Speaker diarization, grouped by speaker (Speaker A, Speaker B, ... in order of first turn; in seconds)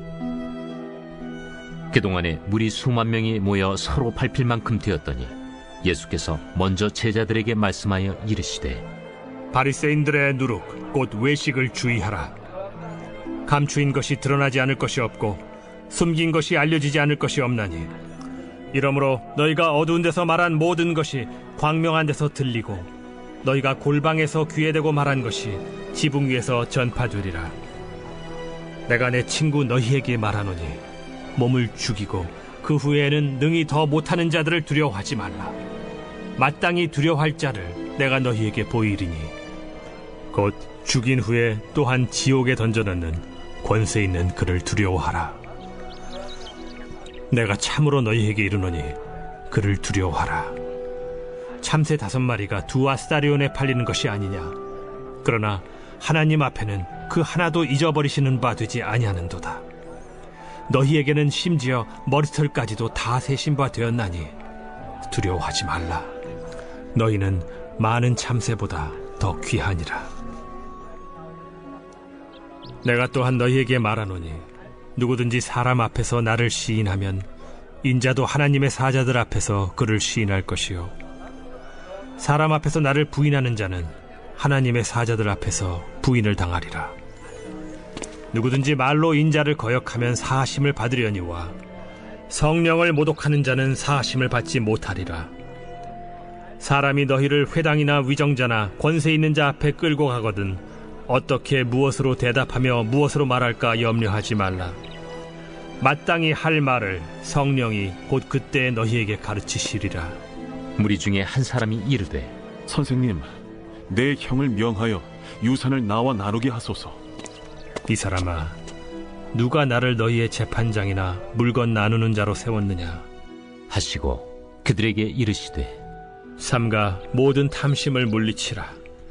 Speaker A: 1.9-8.8, 110.8-112.3, 123.7-125.8
Speaker B: 9.5-12.3, 13.5-17.9, 18.7-22.9, 23.4-27.6, 28.9-30.8, 31.4-35.5, 36.4-39.4, 40.3-45.4, 47.3-49.0, 49.5-50.6, 51.6-54.6, 55.2-59.6, 60.7-64.3, 65.1-66.1, 67.0-70.1, 72.8-77.3, 77.8-80.9, 82.2-87.0, 88.3-91.6, 92.3-95.3, 96.6-104.8, 105.8-110.2, 117.9-118.6, 119.3-123.0, 126.4-128.8
Speaker C: 112.7-113.3, 113.9-117.0